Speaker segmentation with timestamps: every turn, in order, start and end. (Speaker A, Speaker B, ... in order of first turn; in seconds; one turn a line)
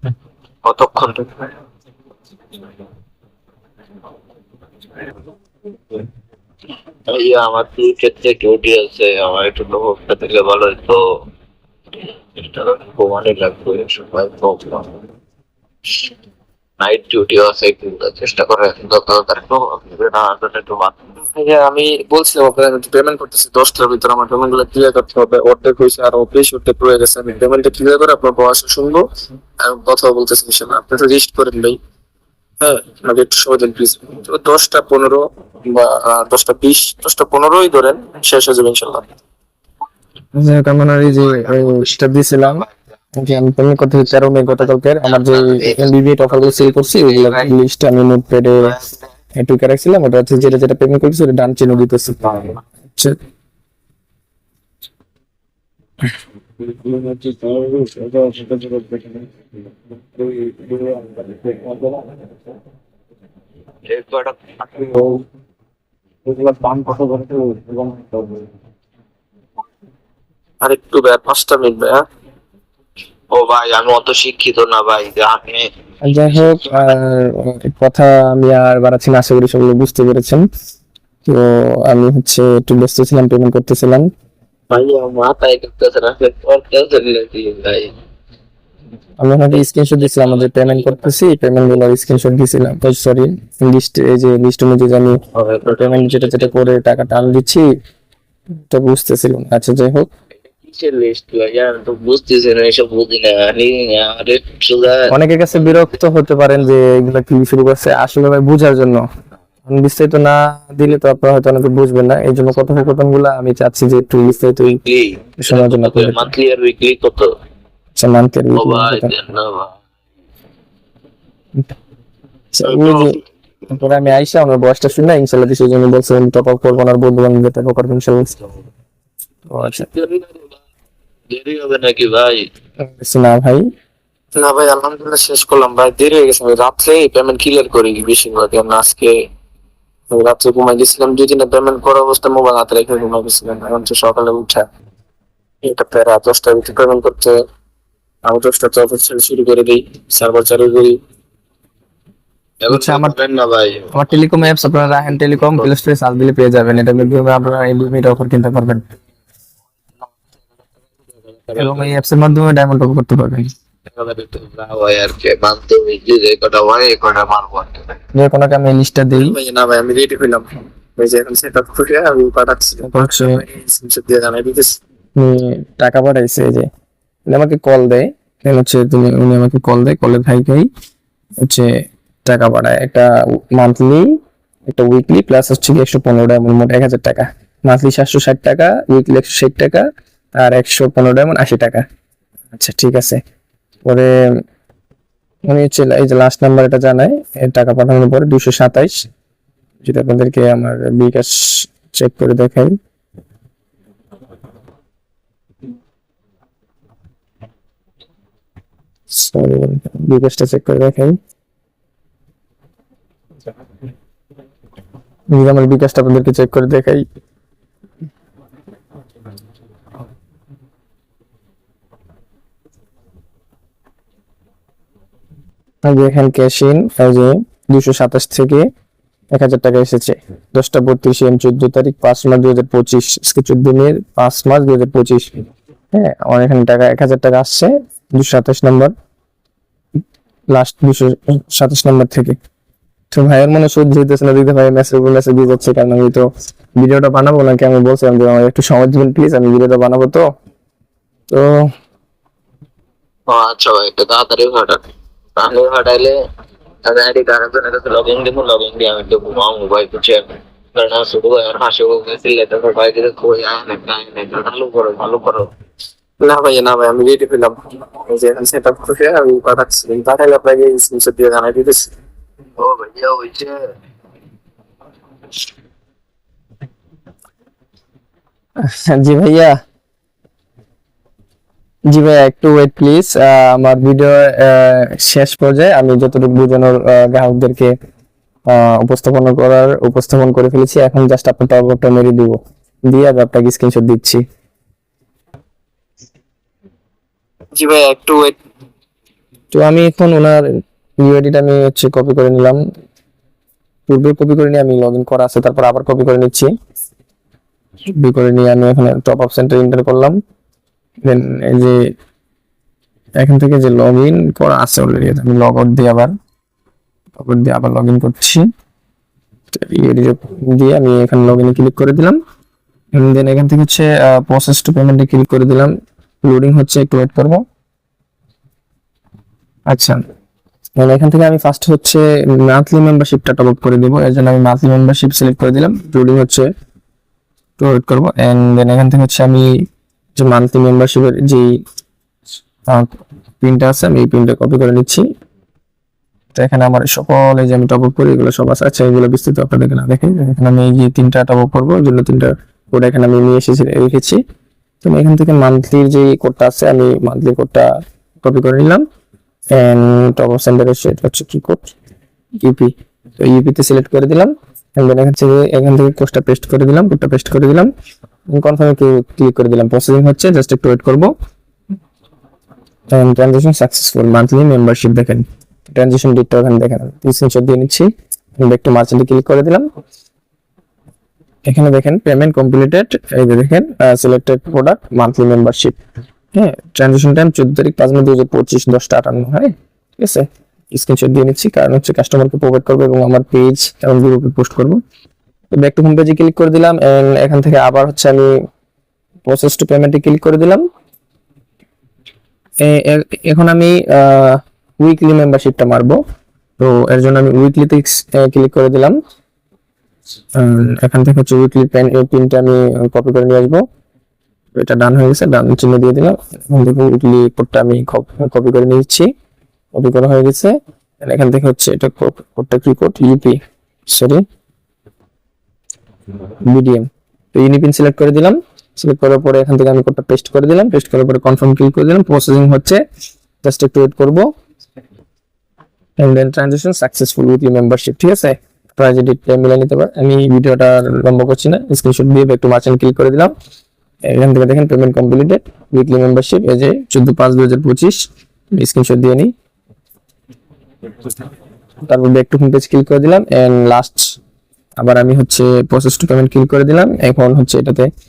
Speaker A: 0.7-1.5
Speaker A: 7.1-11.0
Speaker A: 11.9-14.9
Speaker A: 16.8-21.2
Speaker B: 21.3-29.1
Speaker B: 29.6-31.8
Speaker B: 32.6-39.1
Speaker C: 40.4-48.8
Speaker A: 41.1-42.7
Speaker A: 45.0-47.5
Speaker A: 48.6-49.0
Speaker C: 49.4-53.2
Speaker B: 56.9-59.0
Speaker B: 60.4-61.9
Speaker A: 63.9-65.1
Speaker B: 66.3-67.9
Speaker B: 70.6-72.0
Speaker A: 73.3-75.7
Speaker C: 76.0-80.4
Speaker A: 76.3-76.9
Speaker C: 81.3-84.1
Speaker A: 84.7-87.9
Speaker C: 89.2-97.7
Speaker A: 89.6-91.2
Speaker A: 95.3-96.8
Speaker C: 98.7-100.1
Speaker A: 100.6-105.1
Speaker C: 105.1-109.0
Speaker C: 109.7-114.8
Speaker A: 114.8-117.3
Speaker C: 115.4-116.3
Speaker C: 118.0-119.1
Speaker A: 118.5-119.8
Speaker C: 122.5-128.4
Speaker A: 122.7-123.2
Speaker C: 129.5-129.9
Speaker A: 129.6-130.5
Speaker A: 131.3-132.5
Speaker C: 132.8-133.7
Speaker B: 134.4-139.3
Speaker B: 140.1-144.7
Speaker B: 145.6-147.4
Speaker B: 148.2-151.0
Speaker A: 152.6-155.7
Speaker C: 152.7-153.2
Speaker C: 153.9-158.9
Speaker A: 161.5-161.9
Speaker C: 161.6-163.5
Speaker A: 163.9-168.0
Speaker C: 168.1-169.4
Speaker B: 169.2-174.8
Speaker C: 172.8-173.5
Speaker C: 175.2-176.7
Speaker C: 177.3-180.7
Speaker C: 181.4-181.7
Speaker C: 182.2-184.2
Speaker C: 184.7-191.9
Speaker C: 192.5-193.2
Speaker C: 193.9-194.2
Speaker C: 195.5-199.1
Speaker C: 199.8-202.8
Speaker C: 209.1-211.2
Speaker C: 215.3-217.1
Speaker C: 225.8-228.7
Speaker C: 229.3-235.3
Speaker C: 235.9-238.9
Speaker C: 240.5-242.4
Speaker C: 243.1-250.2
Speaker C: 251.3-251.7
Speaker A: 253.3-254.8
Speaker A: 255.4-256.1
Speaker A: 256.9-265.5
Speaker B: 266.2-271.9
Speaker A: 272.6-273.7
Speaker C: 278.6-279.6
Speaker C: 281.9-287.7
Speaker C: 288.5-294.2
Speaker B: 297.6-298.4
Speaker C: 299.5-300.4
Speaker C: 301.0-302.6
Speaker C: 303.9-306.5
Speaker C: 307.9-310.2
Speaker C: 311.0-311.9
Speaker C: 313.2-316.1
Speaker C: 317.2-318.5
Speaker C: 319.5-322.2
Speaker C: 322.9-325.7
Speaker C: 326.3-327.4
Speaker C: 329.7-330.0
Speaker C: 330.8-336.5
Speaker C: 337.6-339.6
Speaker C: 340.2-341.5
Speaker C: 342.7-345.1
Speaker C: 346.4-354.2
Speaker C: 354.8-357.7
Speaker C: 358.2-358.8
Speaker C: 359.5-361.7
Speaker C: 362.4-367.7
Speaker C: 368.3-371.1
Speaker C: 372.9-379.7
Speaker C: 381.5-385.8
Speaker C: 386.3-394.8
Speaker C: 395.5-398.3
Speaker C: 399.3-400.6
Speaker C: 402.6-406.0
Speaker C: 406.6-409.0
Speaker C: 410.4-413.6
Speaker C: 414.6-419.1
Speaker C: 419.8-423.4
Speaker C: 423.9-424.2
Speaker C: 426.5-432.8
Speaker C: 433.4-434.3
Speaker C: 436.0-443.3
Speaker C: 444.1-449.3
Speaker C: 451.9-454.2
Speaker C: 454.8-457.9